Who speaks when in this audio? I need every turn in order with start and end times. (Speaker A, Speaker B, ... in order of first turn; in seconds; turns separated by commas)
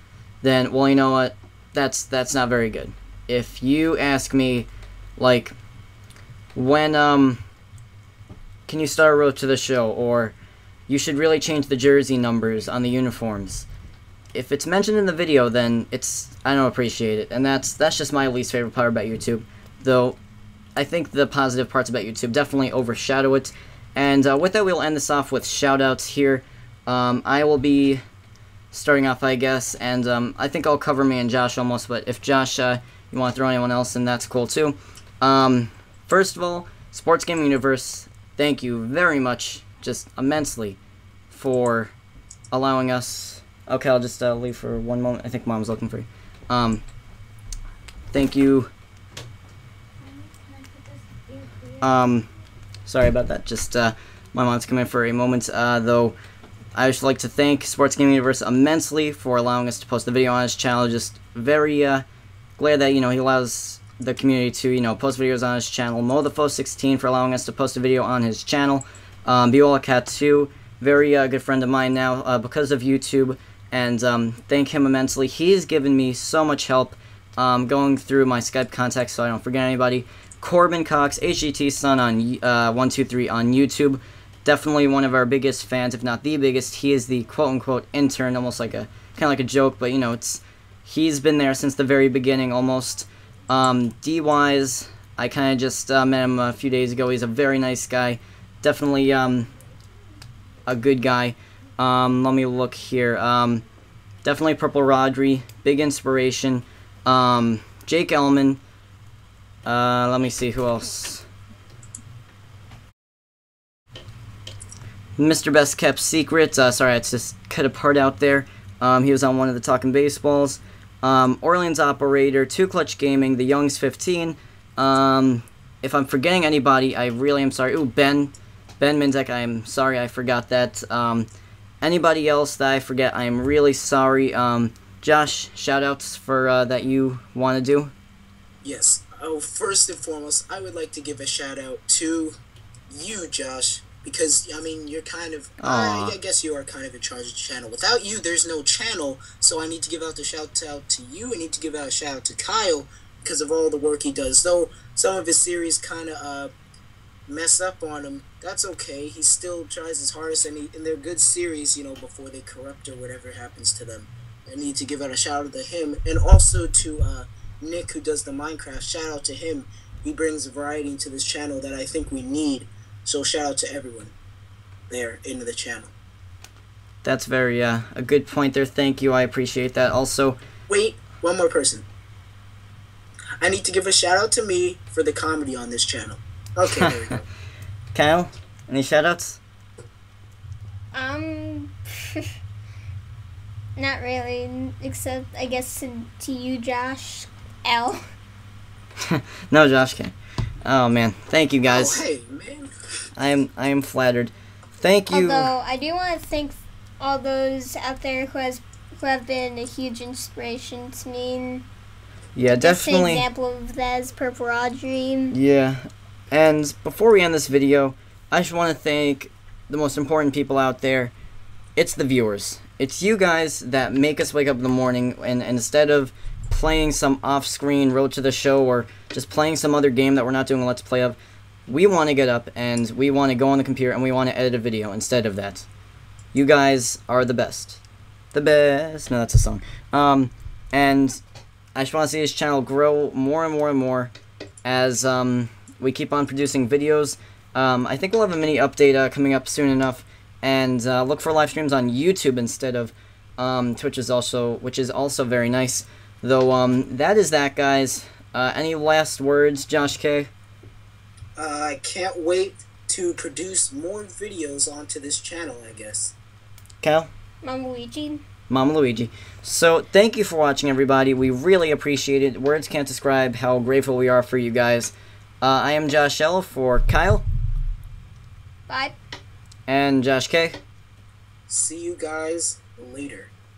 Speaker A: 0.4-5.5, Speaker A: 6.5-7.4, Speaker A: 8.7-10.3, Speaker A: 10.9-13.7, Speaker A: 14.3-20.2, Speaker A: 20.8-28.0, Speaker A: 28.7-40.8, Speaker A: 41.3-41.9, Speaker A: 42.5-46.8, Speaker A: 48.1-48.7, Speaker A: 51.8-52.3, Speaker A: 52.9-56.2, Speaker A: 56.8-62.1, Speaker A: 62.6-99.5, Speaker A: 100.7-103.6, Speaker A: 104.2-108.6, Speaker A: 109.7-111.3, Speaker A: 115.2-131.3, Speaker A: 131.8-137.9, Speaker B: 138.6-142.4, Speaker B: 142.9-156.5, Speaker A: 145.6-146.2, Speaker B: 157.3-174.1, Speaker B: 174.9-175.9, Speaker A: 177.0-180.4, Speaker B: 180.7-181.9, Speaker B: 183.4-187.3, Speaker A: 186.8-187.2, Speaker A: 187.9-189.4, Speaker C: 190.9-192.3, Speaker C: 193.8-198.1, Speaker A: 199.0-202.0, Speaker B: 201.7-202.7, Speaker A: 203.2-205.5, Speaker C: 205.1-211.7, Speaker A: 212.4-213.2, Speaker C: 212.5-215.4, Speaker A: 215.3-221.1, Speaker A: 221.8-235.7, Speaker A: 236.3-237.8, Speaker A: 238.3-241.2, Speaker A: 241.8-244.1, Speaker A: 244.7-260.3, Speaker B: 261.4-266.1, Speaker A: 266.8-267.1, Speaker C: 267.4-268.2, Speaker A: 268.5-277.3, Speaker C: 278.7-279.0, Speaker A: 279.7-280.6, Speaker B: 281.5-283.3